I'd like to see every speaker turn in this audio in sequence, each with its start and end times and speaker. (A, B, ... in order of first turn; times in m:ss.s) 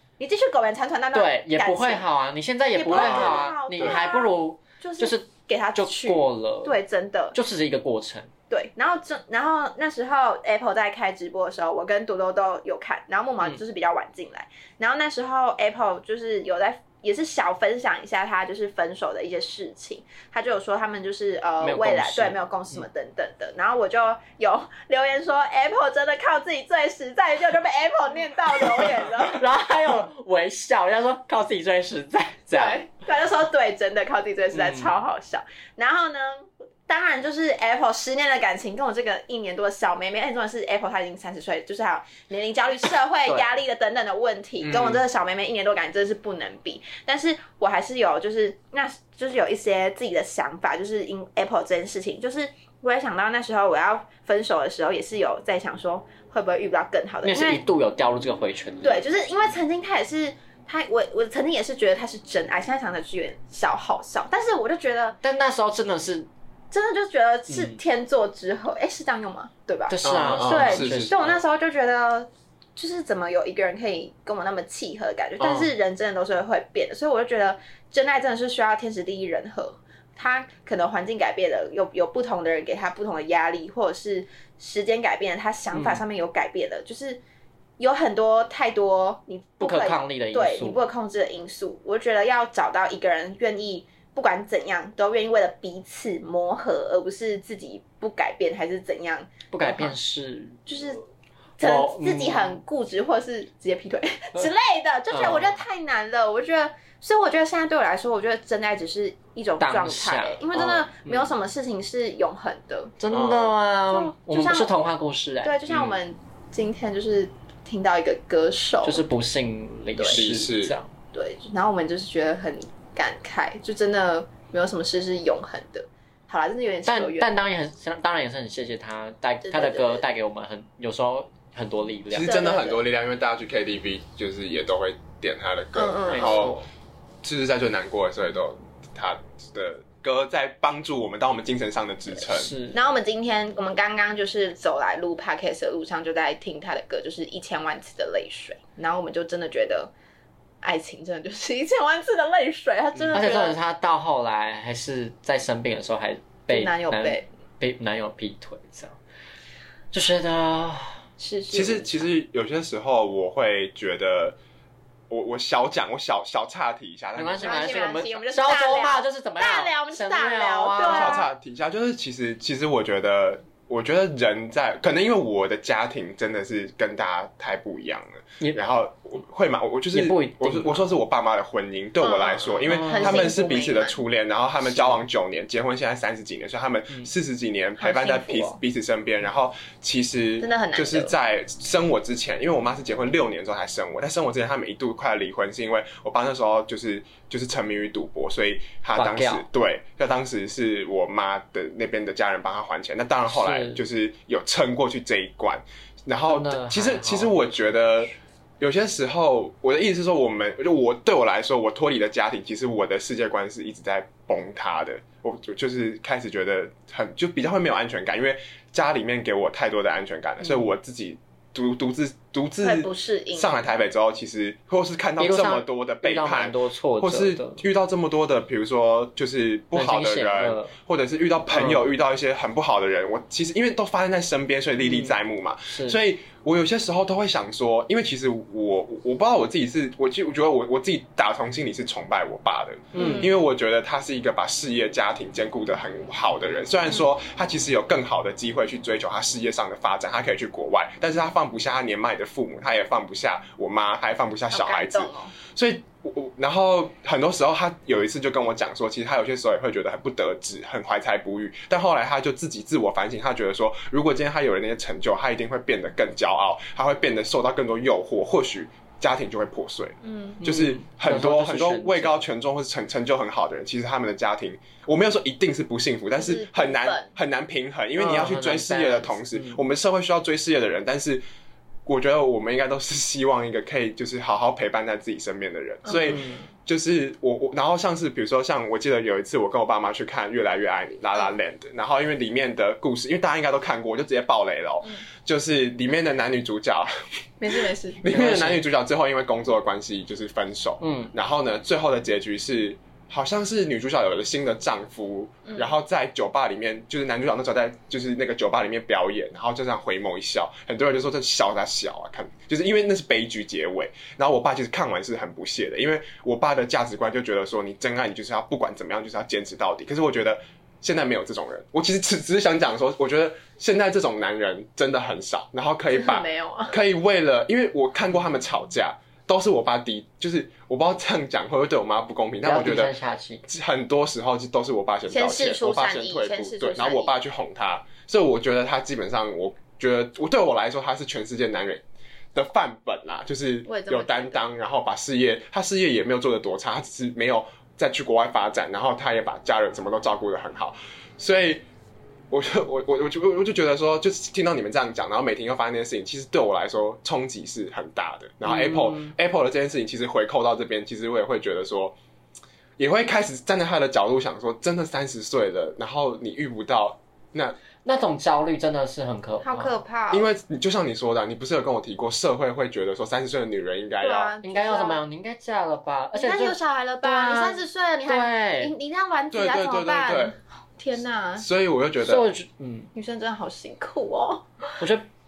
0:00.2-0:02.1 A
0:01.1-0:06.8 B
0:02.7-0:07.3 A
0:02.9-0:04.0 C
0:07.3-0:08.3 B
0:08.5-0:29.4 A
0:21.6-0:22.8 B
0:29.2-0:32.8 B
0:32.5-0:57.6 A
0:34.5-0:34.9 B
0:44.6-0:45.0 C
0:57.2-0:59.0 B
0:58.8-1:05.2 A
1:05.2-1:06.3 B
1:06.7-1:27.2 A
1:07.5-1:07.8 B
1:09.9-1:11.3 B
1:10.0-1:11.3 C
1:15.4-1:15.7 B
1:25.7-1:26.0 B
1:27.8-1:40.0 A
1:29.6-1:30.8 B
1:39.5-1:40.7 B
1:40.7-1:41.0 A
1:41.6-1:52.9 A
1:41.6-1:42.6 B
1:45.1-1:45.6 B
1:49.6-1:51.3 B
1:53.0-1:55.6 B
1:53.1-1:53.5 C
1:53.9-1:54.7 A
1:55.4-1:59.0 A
1:55.7-1:56.0 C
1:58.8-2:00.9 B
2:00.0-2:00.2 A
2:00.1-2:00.8 C
2:01.1-2:07.3 A
2:06.8-2:12.4 B
2:09.5-2:10.0 A
2:12.1-2:12.8 A
2:12.1-2:16.6 C
2:15.7-2:16.5 A
2:16.1-2:16.6 B
2:17.2-2:22.5 C
2:22.3-2:22.8 B
2:22.7-2:29.9 A
2:30.6-2:33.6 A
2:33.1-2:39.0 B
2:36.5-2:37.3 A
2:39.9-2:41.0 B
2:41.2-2:42.0 A
2:41.5-2:44.4 C
2:45.1-2:48.0 C
2:47.2-2:51.2 B
2:47.4-2:51.2 A
2:50.8-4:41.2 C
2:59.9-3:00.9 B
3:02.0-3:04.0 A
3:02.7-3:03.3 B
3:07.8-3:08.6 A
3:10.4-3:11.1 A
3:19.0-3:19.4 B
3:23.3-3:23.8 B
3:26.3-3:27.5 B
3:42.6-3:43.7 A
3:45.2-3:47.6 B
3:49.7-3:50.7 B
3:51.5-3:51.8 B
3:54.8-3:55.1 B
3:55.7-3:56.0 B
4:02.9-4:03.3 B
4:03.0-4:03.3 A
4:14.5-4:15.3 A
4:30.0-4:30.4 A
4:30.4-4:32.2 B
4:36.2-4:37.1 A
4:38.0-4:39.6 B
4:41.8-4:56.9 C
4:45.9-4:46.5 B
4:45.9-4:46.2 A
4:57.4-4:58.0 A
4:57.5-5:32.9 C
4:58.1-4:58.6 B
5:00.8-5:01.1 B
5:25.9-5:26.8 A
5:32.4-5:33.4 B
5:33.4-5:41.8 C
5:35.1-5:37.1 A
5:42.3-5:51.6 C
5:43.7-5:44.4 A
5:52.3-6:02.0 C
5:58.4-5:59.1 B
6:02.8-6:07.6 C
6:07.8-6:09.7 B
6:09.4-6:10.3 A
6:10.1-6:14.3 C
6:14.0-6:15.0 A
6:14.4-6:18.7 B
6:16.1-6:21.5 A
6:19.3-6:20.4 C
6:21.4-6:22.2 C
6:22.0-6:22.9 B
6:22.9-6:24.4 A
6:24.8-6:25.0 B